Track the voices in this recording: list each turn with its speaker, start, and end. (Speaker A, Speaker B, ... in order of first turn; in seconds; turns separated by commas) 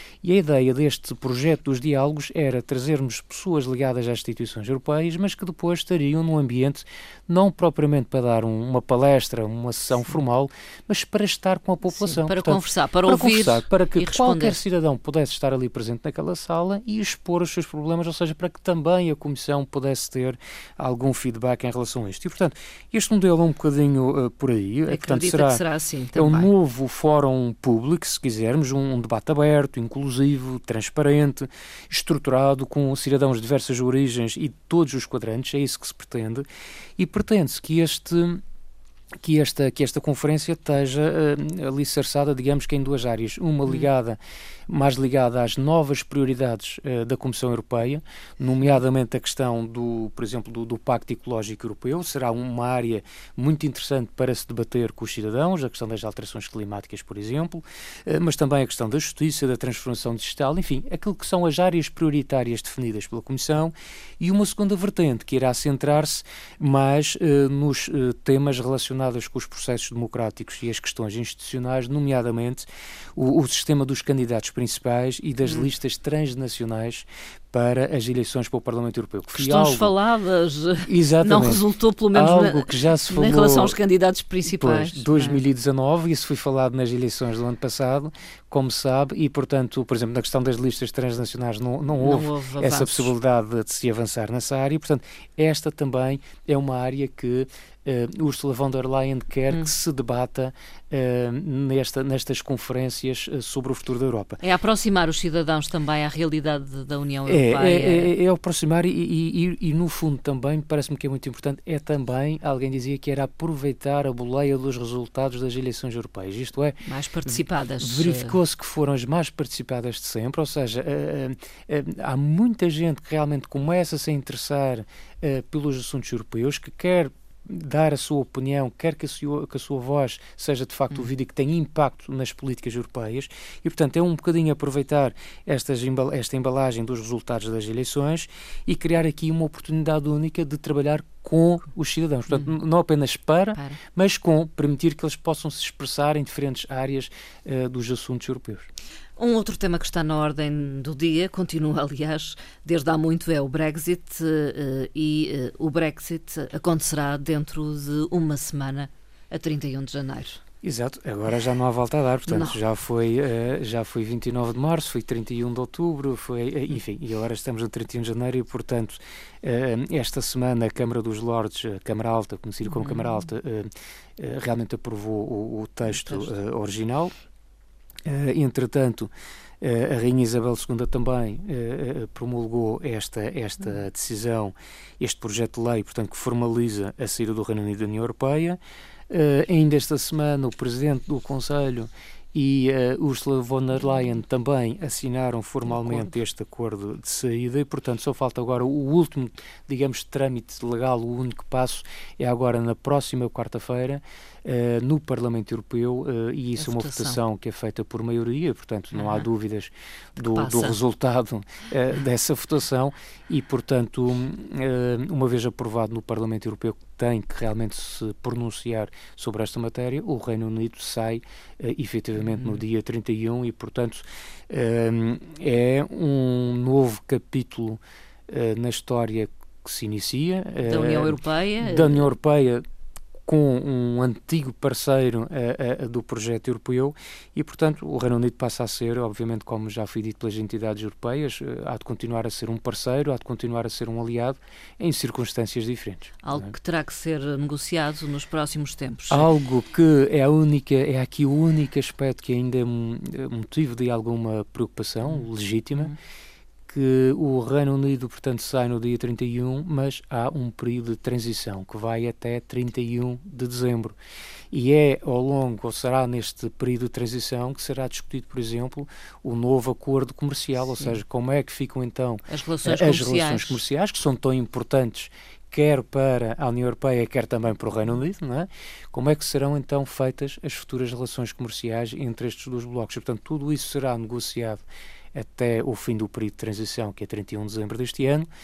Speaker A: 0.2-25.6, Speaker B: 11.9-14.6, Speaker B: 24.9-26.5, Speaker A: 26.1-36.4, Speaker A: 37.0-38.4, Speaker A: 39.2-79.9, Speaker B: 43.6-43.9, Speaker B: 75.4-75.7, Speaker B: 79.3-85.4, Speaker A: 80.8-83.8, Speaker A: 84.4-104.4, Speaker B: 92.0-93.1, Speaker B: 104.4-108.1, Speaker A: 107.2-148.7, Speaker B: 116.8-118.4, Speaker B: 142.3-142.5, Speaker B: 149.2-160.4, Speaker A: 160.6-177.1, Speaker B: 162.2-162.6, Speaker B: 172.7-173.2, Speaker B: 175.9-176.3, Speaker A: 178.1-188.6, Speaker A: 189.1-232.6, Speaker B: 195.6-196.1, Speaker B: 206.6-207.2, Speaker B: 208.9-209.3, Speaker B: 210.2-210.8, Speaker B: 222.2-222.6, Speaker B: 230.6-232.1, Speaker A: 233.2-246.5, Speaker B: 246.2-249.3, Speaker A: 249.1-255.9, Speaker B: 255.0-255.9, Speaker A: 256.7-263.9, Speaker A: 264.5-284.6, Speaker B: 272.3-273.6, Speaker A: 285.1-288.3